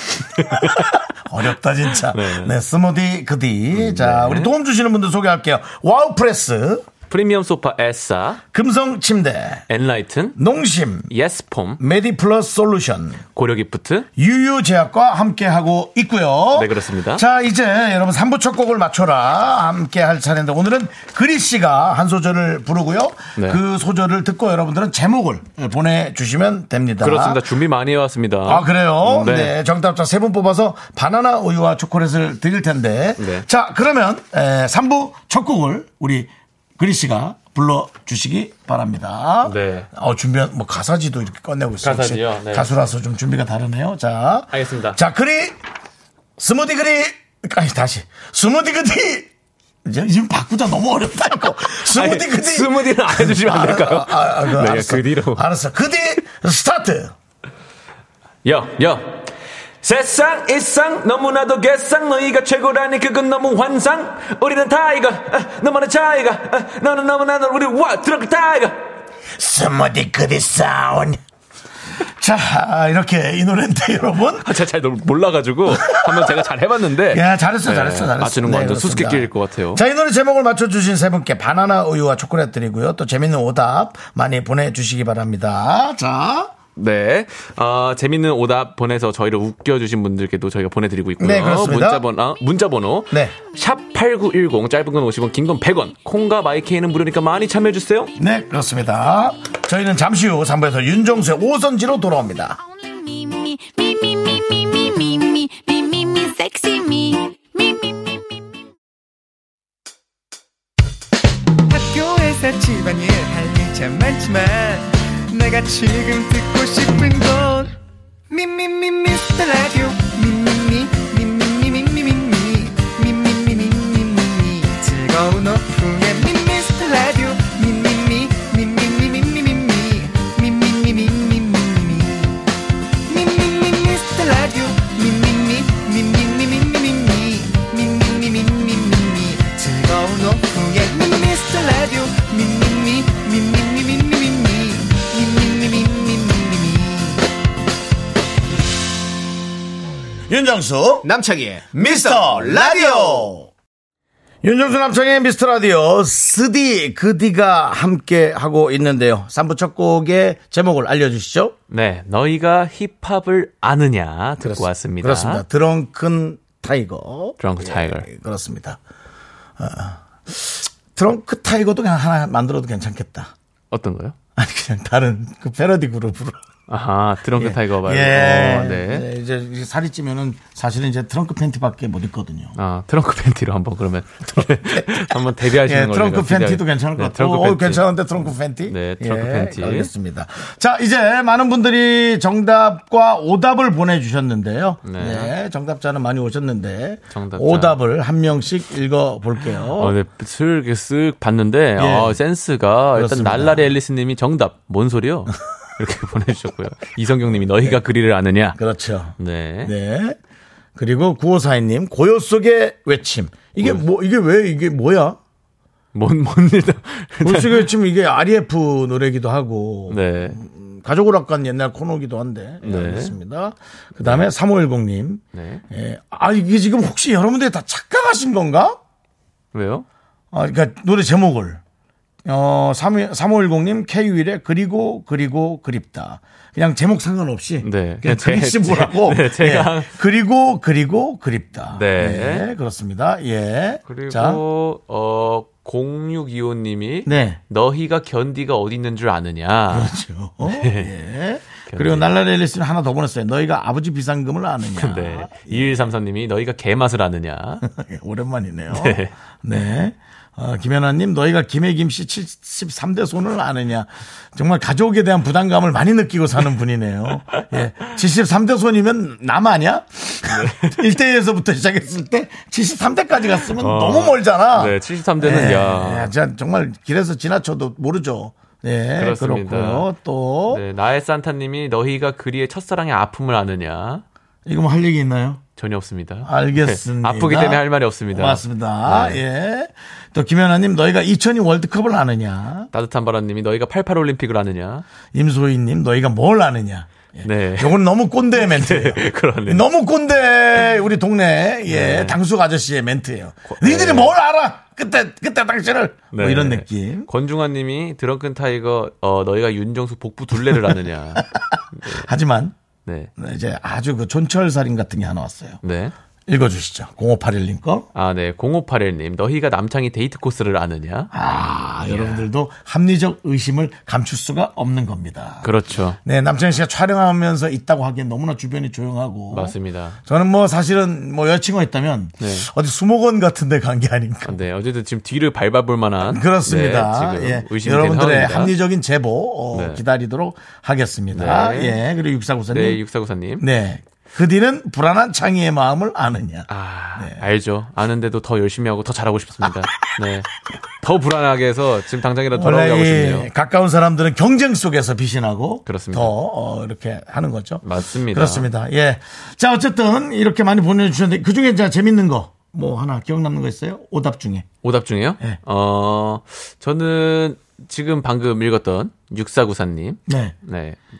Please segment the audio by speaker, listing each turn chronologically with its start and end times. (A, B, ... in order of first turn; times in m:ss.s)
0:00.4-0:01.0 A
0:00.4-0:06.8 B
0:02.0-0:02.5 A
0:03.7-0:04.5 A
0:07.1-0:08.4 A
0:08.5-0:09.6 B
0:09.7-0:10.4 A
0:10.4-0:11.1 B
0:11.1-0:11.8 A
0:11.8-0:13.2 B
0:13.3-0:14.1 A
0:14.2-0:27.4 B
0:16.5-0:17.2 A
0:27.0-0:29.5 A
0:28.4-0:45.6 B
0:33.2-0:33.4 A
0:39.4-0:39.9 A
0:41.8-0:42.7 A
0:44.5-0:45.0 A
0:46.4-0:49.3 B
0:49.8-0:57.1 B
0:51.9-0:55.4 A
0:58.4-0:59.2 A
0:59.8-1:08.8 A
1:09.4-1:11.2 B
1:12.0-1:14.5 B
1:14.4-1:19.8 A
1:15.7-1:16.3 B
1:17.1-1:26.5 B
1:26.8-1:38.1 A
1:31.2-1:32.0 B
1:38.2-1:42.6 B
1:42.7-1:48.4 C
1:51.7-1:57.7 D
1:58.3-2:12.4 D
2:13.1-2:27.2 D
2:30.3-2:31.1 B
2:31.0-2:33.3 E
2:31.7-2:33.5 B
2:34.4-2:41.5 B
2:41.7-2:45.4 A
2:44.4-2:48.8 B
2:47.4-2:48.1 A
2:49.6-2:53.3 B
2:53.7-2:54.2 A
2:54.4-2:56.4 B
2:56.7-2:59.0 A
2:57.4-3:02.6 B
3:02.6-3:07.8 A
3:04.7-3:20.0 B
3:08.7-3:09.9 A
3:14.8-3:15.3 A
3:17.1-3:17.8 A
3:19.8-3:28.6 A
3:21.8-3:22.2 B
3:22.9-3:23.7 B
3:28.6-3:30.2 B
3:29.2-3:29.7 A
3:30.8-3:35.2 B
3:35.9-3:37.7 A
3:37.2-3:48.8 B
3:39.9-3:40.4 A
3:42.6-3:43.2 A
3:45.3-3:45.6 A
3:49.5-3:49.8 A
3:50.3-3:51.6 B
3:52.2-4:04.4 B
3:57.6-3:59.9 A
4:01.7-4:02.5 A
4:03.9-4:10.9 A
4:07.0-4:07.4 B
4:09.7-4:15.9 B
4:11.7-4:12.1 A
4:14.8-4:17.6 A
4:17.6-4:40.6 B
4:18.7-4:19.1 A
4:30.3-4:30.8 A
4:33.5-4:36.1 A
4:39.0-4:39.9 A
4:40.5-4:44.0 A
4:44.4-4:45.4 B
4:45.6-4:49.2 A
4:46.2-4:52.7 B
4:52.7-4:54.8 A
4:55.1-5:07.1 B
4:57.2-4:57.8 A
4:58.3-4:59.6 A
5:01.7-5:02.2 A
5:03.4-5:04.2 A
5:06.1-5:12.1 A
5:10.5-5:12.5 B
5:13.2-5:15.6 B
5:15.6-5:15.9 A
5:16.3-5:17.9 B
5:17.9-5:21.1 A
5:21.1-5:25.5 B
5:21.8-5:22.2 A
5:25.4-5:26.0 A
5:26.0-5:29.5 B
5:29.3-5:30.0 A
5:30.0-5:34.4 B
5:32.2-5:32.5 A
5:34.2-5:38.5 A
5:36.0-5:42.8 B
5:39.5-5:39.8 A
5:41.1-5:41.8 A
5:42.5-5:43.4 A
5:43.4-5:47.2 B
5:46.5-5:50.3 A
5:50.8-5:53.3 A
5:52.3-6:04.5 B
5:55.6-5:56.1 A
5:57.6-5:58.5 A
6:04.6-6:10.8 A
6:10.1-6:10.3 B